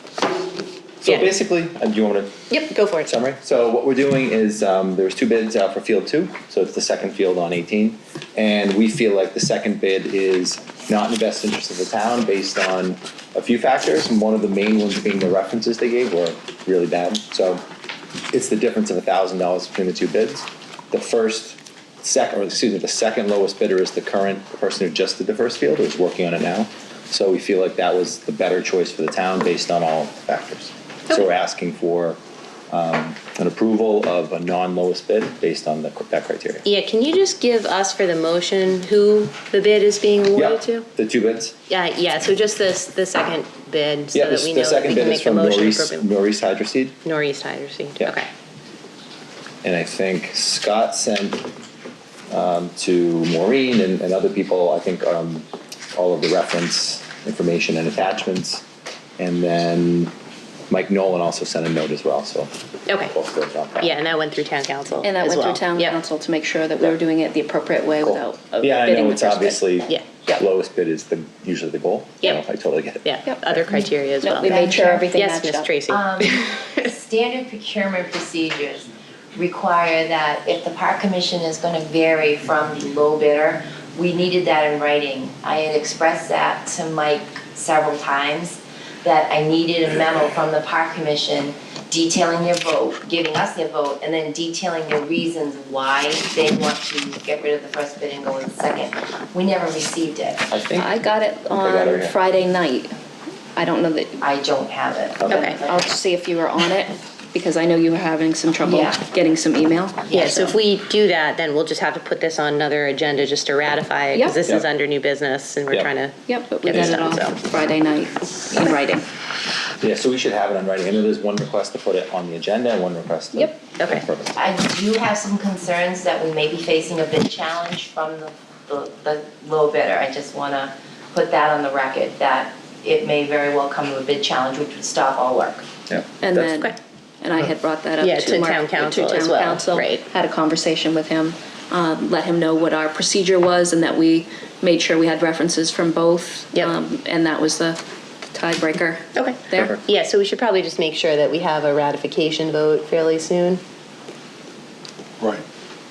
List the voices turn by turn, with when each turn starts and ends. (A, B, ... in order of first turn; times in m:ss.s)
0:01.0-0:02.5 A
0:02.5-0:03.2 B
0:03.0-0:17.6 A
0:18.3-0:32.2 A
0:32.7-0:36.6 A
0:36.6-0:40.9 B
0:40.4-0:41.6 A
0:41.7-0:46.1 B
0:44.1-0:47.0 A
0:47.0-0:48.3 B
0:49.6-0:51.4 A
0:52.3-0:58.6 A
0:59.2-1:00.1 A
1:00.7-1:04.0 A
1:02.9-1:03.1 B
1:03.8-1:06.0 B
1:05.0-1:10.4 C
1:08.0-1:13.2 A
1:13.0-1:16.9 B
1:13.3-1:15.8 C
1:14.4-1:14.9 D
1:15.9-1:40.5 D
1:40.5-1:42.2 A
1:40.7-1:43.0 C
1:43.6-1:44.2 C
1:44.2-1:45.9 D
1:45.2-1:45.5 A
1:45.3-1:50.0 C
1:45.3-1:45.6 B
1:48.6-1:49.0 D
1:50.1-1:50.5 D
1:50.1-1:57.4 B
1:54.1-1:54.4 C
1:56.3-1:59.1 C
1:56.7-1:57.1 A
1:59.8-2:04.4 A
2:03.8-2:04.1 B
2:04.3-2:15.7 D
2:15.9-2:16.6 A
2:16.2-2:27.8 C
2:18.0-2:20.0 B
2:28.3-2:29.8 C
2:29.2-2:33.6 B